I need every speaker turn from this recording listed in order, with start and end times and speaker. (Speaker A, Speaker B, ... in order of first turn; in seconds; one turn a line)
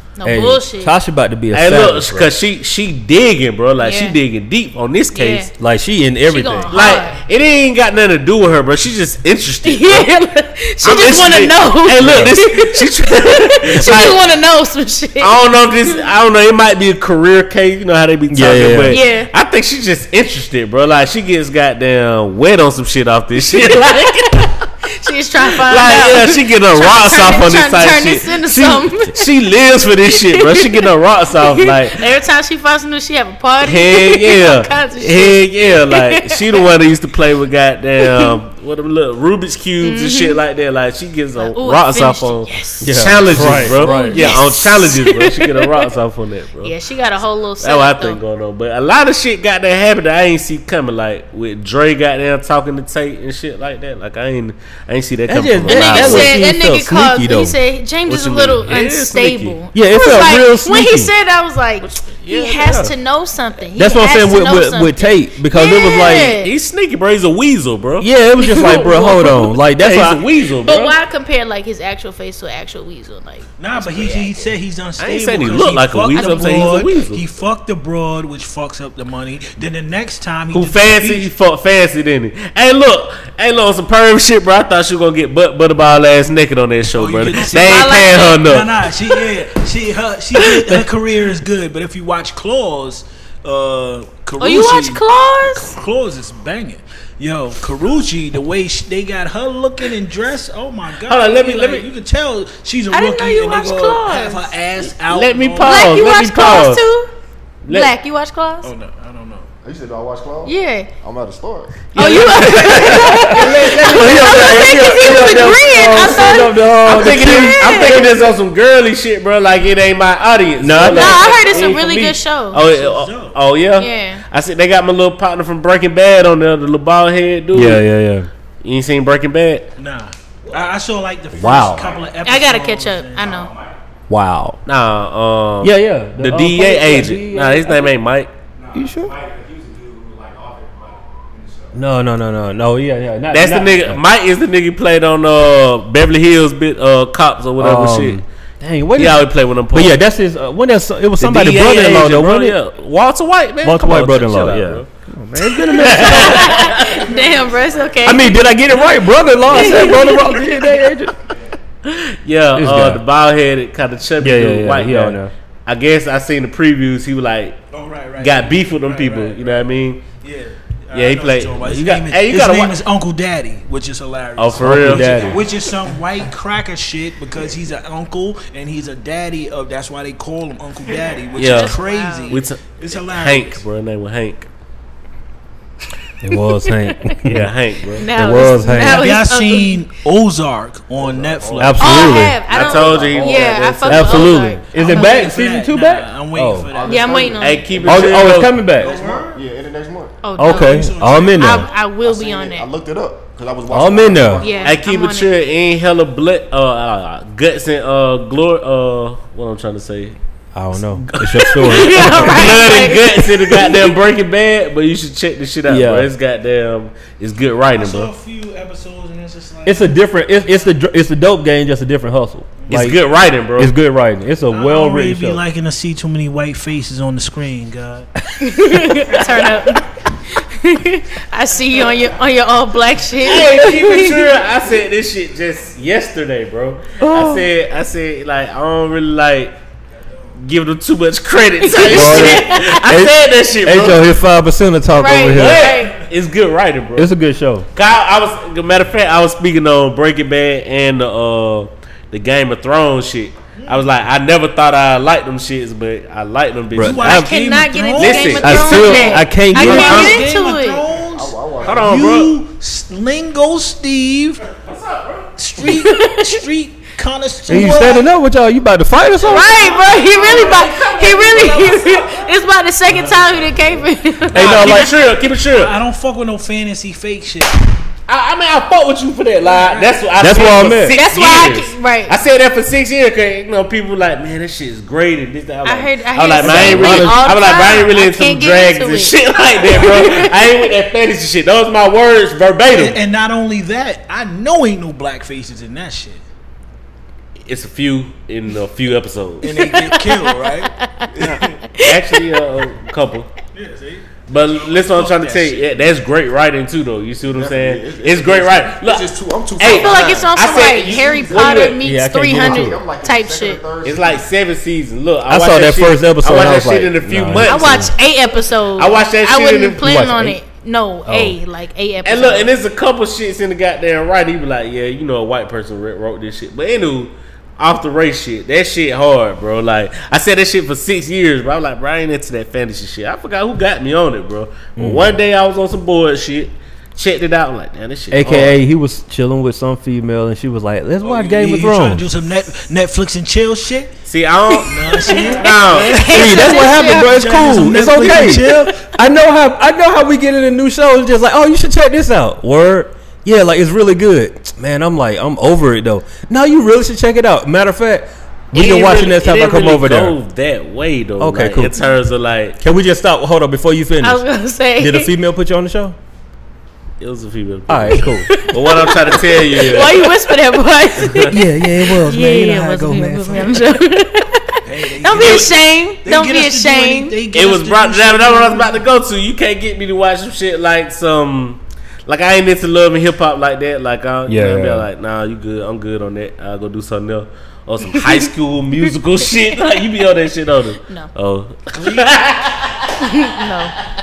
Speaker A: 0.2-1.0
Speaker B: 0.2-2.3
Speaker C: 1.5-5.5
Speaker A: 3.8-4.2
Speaker A: 5.1-5.5
Speaker B: 5.6-6.9
Speaker A: 6.3-7.2
Speaker C: 6.7-10.1
Speaker A: 9.7-16.0
Speaker C: 10.8-14.3
Speaker B: 12.0-12.3
Speaker C: 15.2-24.6
Speaker B: 18.3-19.0
Speaker A: 18.9-19.3
Speaker A: 24.9-29.3
Speaker C: 25.5-32.1
Speaker A: 30.1-36.7
Speaker C: 33.6-46.7
Speaker A: 38.1-38.3
Speaker A: 39.8-40.4
Speaker A: 41.4-45.9
Speaker B: 42.8-44.3
Speaker A: 46.6-48.2
Speaker C: 47.6-56.4
Speaker B: 55.3-57.6
Speaker A: 55.7-66.5
Speaker C: 58.1-59.6
Speaker B: 59.7-61.1
Speaker C: 61.8-62.9
Speaker B: 63.8-66.3
Speaker C: 66.0-71.0
Speaker B: 68.0-70.2
Speaker A: 68.4-69.3
Speaker A: 70.6-74.5
Speaker D: 73.6-81.3
Speaker C: 75.0-77.2
Speaker A: 76.2-76.9
Speaker C: 80.5-88.8
Speaker D: 86.9-105.9
Speaker A: 87.5-88.5
Speaker C: 90.4-90.7
Speaker A: 94.4-95.8
Speaker C: 101.0-101.9
Speaker A: 102.9-104.5
Speaker C: 104.8-106.8
Speaker A: 105.6-107.1
Speaker C: 107.6-107.9
Speaker A: 107.7-108.7
Speaker D: 108.6-109.5
Speaker E: 109.6-111.7
Speaker A: 110.5-110.9
Speaker C: 111.9-127.8
Speaker A: 112.0-118.2
Speaker B: 112.7-118.2
Speaker B: 120.6-121.4
Speaker A: 120.9-122.6
Speaker D: 122.5-123.4
Speaker A: 123.8-124.2
Speaker B: 127.5-128.3
Speaker C: 128.6-129.7
Speaker D: 129.8-133.4
Speaker B: 131.3-131.9
Speaker F: 131.8-132.1
Speaker A: 132.2-133.5
Speaker F: 133.3-133.8
Speaker B: 134.1-134.6
Speaker C: 134.7-138.3
Speaker B: 135.6-137.9
Speaker F: 138.6-141.8
Speaker B: 138.8-139.2
Speaker B: 141.7-144.0
Speaker C: 143.3-148.2
Speaker B: 147.6-152.6
Speaker C: 149.0-150.0
Speaker C: 151.2-154.9
Speaker B: 153.6-156.7
Speaker C: 155.7-157.1
Speaker A: 155.7-158.8
Speaker F: 156.7-158.2
Speaker B: 158.0-161.2
Speaker A: 159.5-160.6
Speaker C: 161.8-167.6
Speaker B: 162.6-163.0
Speaker B: 164.2-165.3
Speaker D: 167.7-169.7
Speaker C: 168.2-170.1
Speaker D: 170.2-183.6
Speaker C: 170.9-172.8
Speaker C: 174.4-175.4
Speaker B: 174.6-175.4
Speaker A: 181.3-182.4
Speaker C: 181.3-184.5
Speaker B: 186.2-189.1
Speaker A: 186.3-187.2
Speaker C: 187.2-188.1
Speaker A: 188.0-189.9
Speaker D: 188.8-191.9
Speaker E: 191.0-192.1
Speaker B: 191.6-192.4
Speaker A: 191.8-195.3
Speaker C: 191.8-194.6
Speaker E: 192.7-193.5
Speaker B: 193.4-196.7
Speaker D: 194.7-197.4
Speaker E: 196.6-200.2
Speaker A: 196.8-197.8
Speaker C: 197.4-198.7
Speaker B: 197.8-198.9
Speaker D: 198.8-199.4
Speaker A: 200.2-202.7
Speaker B: 200.4-201.7
Speaker D: 200.4-201.8
Speaker E: 202.0-204.6
Speaker B: 203.7-204.4
Speaker A: 204.4-205.3
Speaker D: 204.5-204.7
Speaker C: 204.7-210.2
Speaker B: 210.6-212.8
Speaker C: 211.0-218.1
Speaker A: 211.6-213.9
Speaker B: 215.7-216.1
Speaker D: 217.7-220.8
Speaker B: 219.7-223.0
Speaker D: 222.6-222.9
Speaker C: 222.7-223.7
Speaker B: 223.6-225.4
Speaker D: 224.5-228.1
Speaker A: 228.4-234.2
Speaker C: 233.2-239.6
Speaker B: 237.0-237.5
Speaker C: 240.4-244.1
Speaker A: 241.6-242.8
Speaker B: 241.8-245.7
Speaker A: 244.9-245.9
Speaker C: 245.3-247.1
Speaker B: 247.0-247.7
Speaker C: 247.7-257.3
Speaker D: 253.6-253.9
Speaker B: 256.8-257.0
Speaker D: 256.8-258.9
Speaker A: 257.0-260.8
Speaker C: 258.0-260.2
Speaker B: 258.4-260.2
Speaker D: 259.5-264.4
Speaker E: 260.7-261.9
Speaker C: 261.6-262.4
Speaker C: 264.5-265.3
Speaker D: 265.4-268.1
Speaker A: 265.6-266.4
Speaker B: 267.5-269.6
Speaker A: 269.3-274.8
Speaker D: 269.3-272.3
Speaker C: 269.3-272.2
Speaker D: 272.9-273.7
Speaker B: 274.3-274.9
Speaker C: 274.3-275.8
Speaker D: 274.4-277.7
Speaker C: 278.1-293.0
Speaker D: 279.4-280.0
Speaker B: 280.2-281.0
Speaker A: 280.9-282.2
Speaker A: 285.6-290.4
Speaker B: 286.4-287.3
Speaker D: 292.7-296.2
Speaker C: 297.4-299.5
Speaker D: 299.4-301.6
Speaker A: 299.5-302.2
Speaker C: 301.8-303.3
Speaker D: 303.5-305.7
Speaker C: 304.3-311.8
Speaker E: 307.4-310.3
Speaker A: 309.7-313.6
Speaker E: 311.3-311.6
Speaker B: 311.6-312.8
Speaker E: 312.4-314.2
Speaker C: 313.8-317.9
Speaker B: 315.3-317.9
Speaker A: 317.5-322.5
Speaker C: 318.8-320.1
Speaker B: 319.8-320.4
Speaker B: 321.1-321.4
Speaker C: 322.1-338.6
Speaker B: 334.8-335.1
Speaker B: 338.1-342.1
Speaker D: 341.0-344.0
Speaker C: 344.1-346.1
Speaker A: 344.5-347.3
Speaker D: 344.7-348.9
Speaker B: 346.1-360.2
Speaker C: 358.5-362.6
Speaker B: 361.2-361.8
Speaker B: 362.6-364.2
Speaker A: 364.0-365.1
Speaker B: 364.8-366.0
Speaker C: 367.0-370.1
Speaker B: 367.7-368.3
Speaker A: 368.2-377.2
Speaker B: 371.1-373.6
Speaker D: 374.6-378.8
Speaker C: 377.3-393.1
Speaker B: 384.3-384.9
Speaker A: 387.9-388.9
Speaker D: 391.7-392.2
Speaker A: 393.0-393.8